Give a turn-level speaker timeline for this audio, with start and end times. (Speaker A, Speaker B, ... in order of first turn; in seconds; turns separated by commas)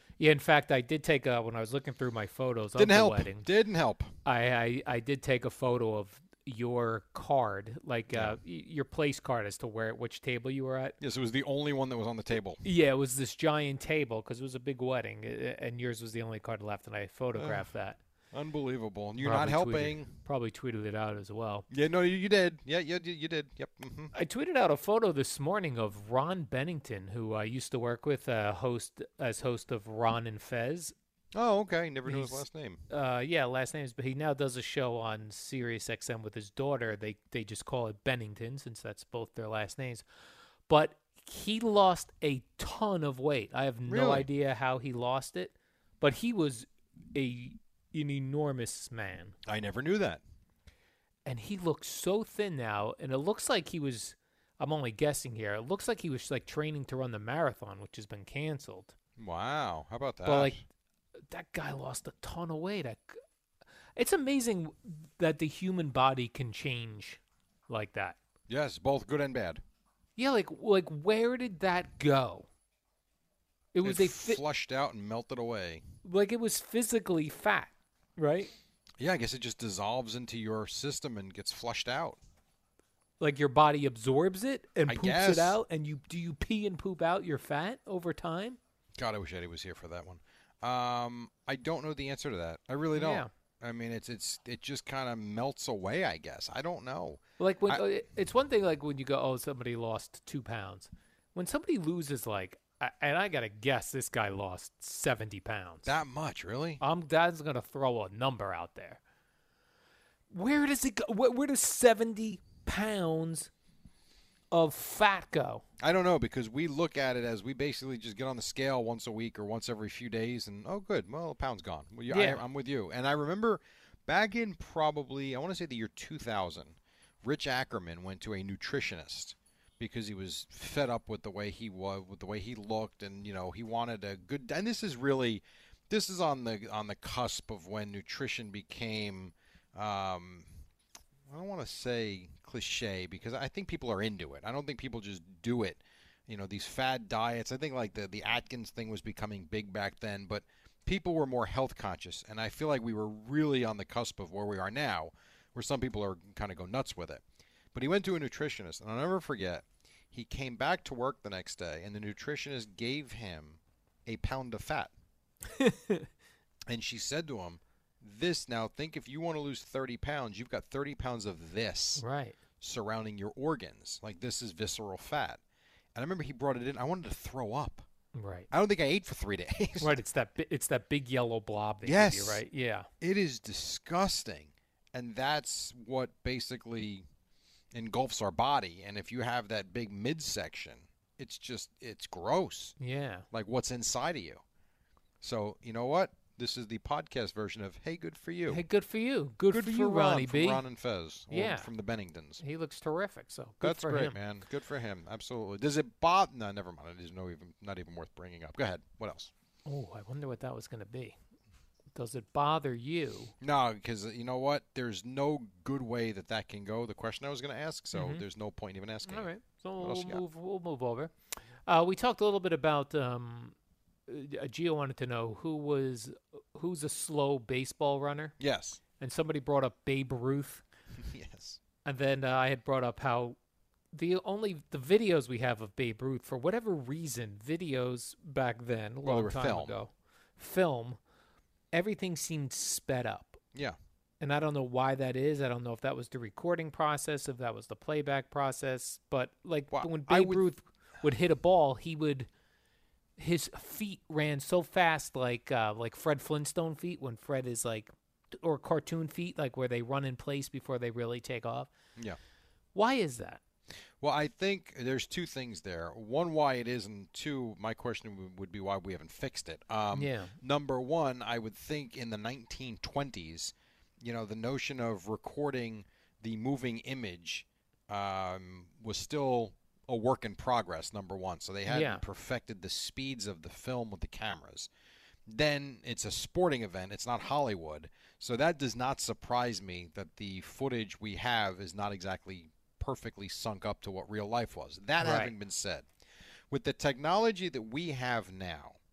Speaker A: 0.2-3.5, Speaker B: 2.8-4.1, Speaker A: 4.2-11.0, Speaker B: 8.1-8.4, Speaker B: 11.0-12.6, Speaker A: 12.6-18.0, Speaker B: 17.3-17.6, Speaker B: 18.3-20.1, Speaker A: 19.2-21.6, Speaker B: 21.7-24.1, Speaker A: 24.1-30.9, Speaker B: 31.3-32.8, Speaker A: 32.0-40.0, Speaker A: 40.7-49.4, Speaker B: 43.9-44.3, Speaker B: 49.4-50.2, Speaker A: 51.2-58.9, Speaker B: 59.2-60.6, Speaker A: 60.2-60.6, Speaker A: 61.3-63.2, Speaker A: 64.0-68.2, Speaker B: 68.5-69.6, Speaker A: 70.2-72.5, Speaker A: 73.7-74.4, Speaker B: 73.8-75.8, Speaker A: 76.0-78.5, Speaker B: 79.0-82.2, Speaker A: 83.2-88.6, Speaker B: 84.9-85.6, Speaker B: 89.0-97.8, Speaker A: 93.0-93.3, Speaker A: 97.4-105.9, Speaker B: 105.8-106.8, Speaker A: 106.8-109.0, Speaker A: 110.3-113.5, Speaker A: 114.5-115.6, Speaker B: 115.8-140.5, Speaker A: 122.1-122.4, Speaker B: 141.3-157.2, Speaker B: 157.7-164.9, Speaker A: 165.6-166.1, Speaker B: 166.7-172.0, Speaker A: 172.0-172.3, Speaker B: 172.6-175.4, Speaker B: 175.9-177.8, Speaker A: 178.1-178.5, Speaker B: 178.5-179.9, Speaker A: 179.8-182.9, Speaker B: 181.8-182.4, Speaker B: 183.0-187.0, Speaker B: 187.7-192.8, Speaker A: 192.8-193.2, Speaker B: 193.3-194.4, Speaker B: 195.2-198.6, Speaker A: 198.5-200.6, Speaker B: 199.5-202.4, Speaker A: 201.3-201.7, Speaker A: 202.4-204.2, Speaker B: 203.6-209.3, Speaker A: 209.7-211.2, Speaker A: 211.9-213.3, Speaker B: 213.4-220.2, Speaker A: 217.9-218.2, Speaker A: 219.0-221.1, Speaker A: 221.7-223.5, Speaker A: 224.1-228.3, Speaker B: 228.4-228.8, Speaker A: 229.0-230.6, Speaker B: 231.0-231.6, Speaker A: 231.8-233.4, Speaker A: 233.9-241.0, Speaker B: 239.0-239.8, Speaker A: 241.7-243.4, Speaker A: 244.2-252.3, Speaker B: 249.7-250.4, Speaker A: 253.2-261.7, Speaker A: 262.7-263.4, Speaker B: 264.0-284.7, Speaker A: 269.9-270.3, Speaker A: 281.6-282.0, Speaker B: 285.3-295.9, Speaker A: 295.0-295.3, Speaker B: 296.5-298.8